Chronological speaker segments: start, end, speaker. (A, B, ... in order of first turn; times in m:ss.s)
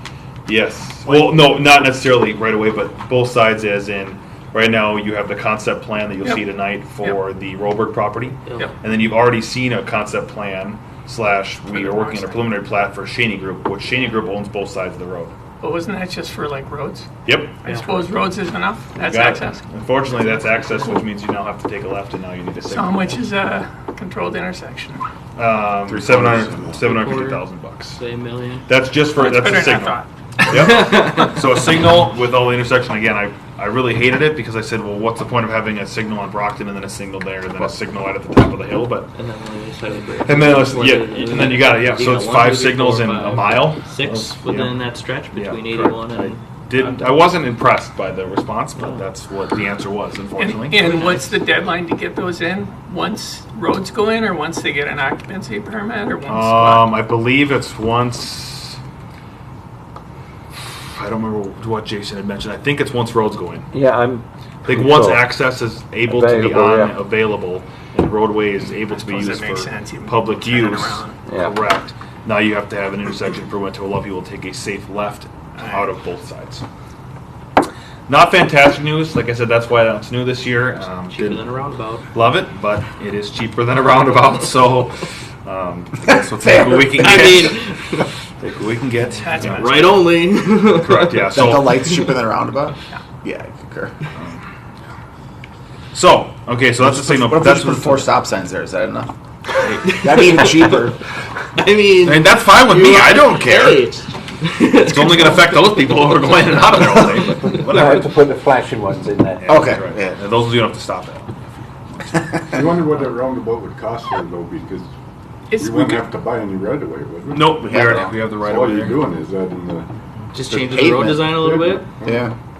0:00.4-0:15.4 A
0:01.0-0:01.4 B
0:06.2-0:07.2 B
0:08.4-0:08.7 C
0:11.7-0:12.5 B
0:15.6-0:17.1 B
0:17.2-0:17.6 A
0:17.6-0:21.0 B
0:17.6-0:18.1 C
0:18.9-0:23.2 A
0:22.6-0:25.0 B
0:25.4-0:28.0 A
0:25.9-0:26.8 D
0:26.8-0:28.7 C
0:28.7-0:39.1 A
0:29.2-0:30.1 B
0:30.8-0:31.2 C
0:39.1-0:47.2 C
0:40.2-0:50.9 A
0:48.8-0:49.0 C
0:50.4-0:56.9 B
0:56.3-0:58.8 A
1:00.5-1:03.7 A
1:03.7-1:05.4 E
1:04.6-1:16.6 A
1:06.0-1:06.9 E
1:08.8-1:11.2 B
1:11.2-1:11.5 E
1:15.5-1:15.8 B
1:18.1-1:21.5 A
1:21.1-1:22.1 C
1:22.1-1:27.7 A
1:26.1-1:27.2 F
1:27.0-1:28.0 C
1:28.4-1:30.1 A
1:29.2-1:29.8 B
1:29.4-1:31.4 C
1:30.7-1:32.1 A
1:31.2-1:34.0 F
1:34.1-1:34.4 A
1:35.9-1:38.1 A
1:36.8-1:39.1 F
1:39.6-1:40.0 A
1:39.8-1:40.8 C
1:40.0-1:41.0 F
1:41.6-1:45.9 C
1:42.0-1:43.9 A
1:44.8-1:48.1 A
1:46.6-1:47.1 C
1:47.4-1:49.5 E
1:49.4-1:51.4 A
1:49.5-1:50.1 F
1:51.9-1:53.0 A
1:52.5-1:54.9 D
1:55.5-1:56.0 B
1:55.5-1:57.6 D
1:57.3-1:59.0 A
1:57.6-1:58.2 F
1:58.3-1:59.9 D
2:00.3-2:01.9 C
2:00.4-2:02.3 D
2:00.8-2:01.2 F
2:02.0-2:02.3 F